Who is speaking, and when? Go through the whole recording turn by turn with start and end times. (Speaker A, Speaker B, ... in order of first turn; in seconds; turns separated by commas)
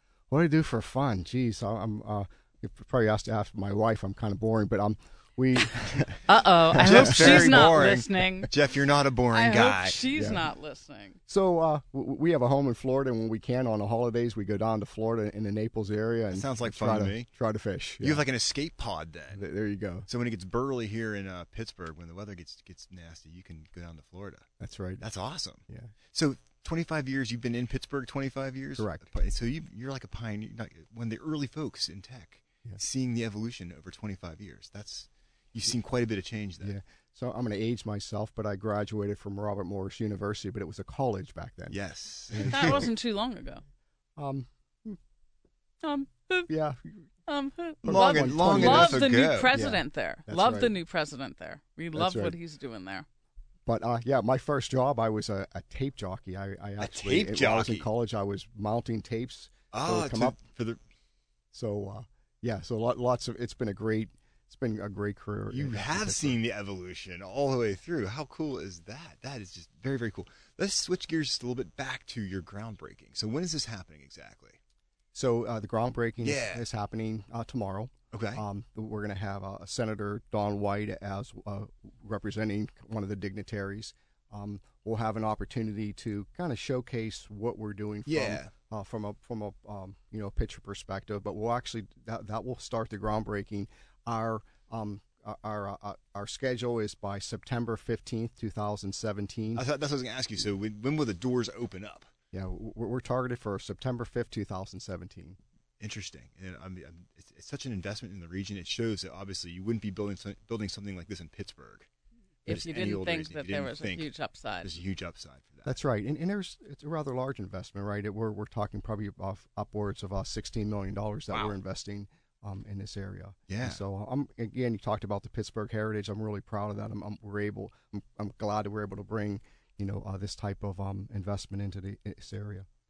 Speaker A: 0.3-6.2, Speaker B: 6.3-8.5, Speaker A: 6.7-7.6, Speaker C: 6.8-10.0, Speaker B: 9.3-11.2, Speaker A: 10.1-10.5, Speaker A: 11.3-18.2, Speaker C: 16.3-17.3, Speaker C: 18.0-19.5, Speaker A: 19.3-20.1, Speaker C: 20.1-24.5, Speaker A: 24.6-25.0, Speaker C: 25.0-36.7, Speaker A: 28.8-29.1, Speaker A: 36.6-42.9, Speaker C: 41.7-42.9, Speaker B: 42.5-43.6, Speaker A: 44.2-45.0, Speaker B: 45.8-46.5, Speaker A: 46.5-47.1, Speaker B: 47.3-53.1, Speaker A: 47.8-50.7, Speaker C: 47.9-49.6, Speaker A: 51.9-52.4, Speaker A: 53.7-60.4, Speaker C: 56.8-57.9, Speaker C: 59.7-60.8, Speaker A: 61.5-66.4, Speaker C: 65.5-74.6, Speaker A: 75.1-99.6, Speaker C: 76.2-76.7, Speaker C: 78.1-78.4, Speaker C: 88.1-88.5, Speaker C: 99.6-102.1, Speaker A: 102.3-105.4, Speaker C: 105.8-111.9, Speaker B: 112.5-114.8, Speaker C: 112.5-115.8, Speaker A: 115.7-132.7, Speaker C: 121.3-121.6, Speaker C: 123.5-123.8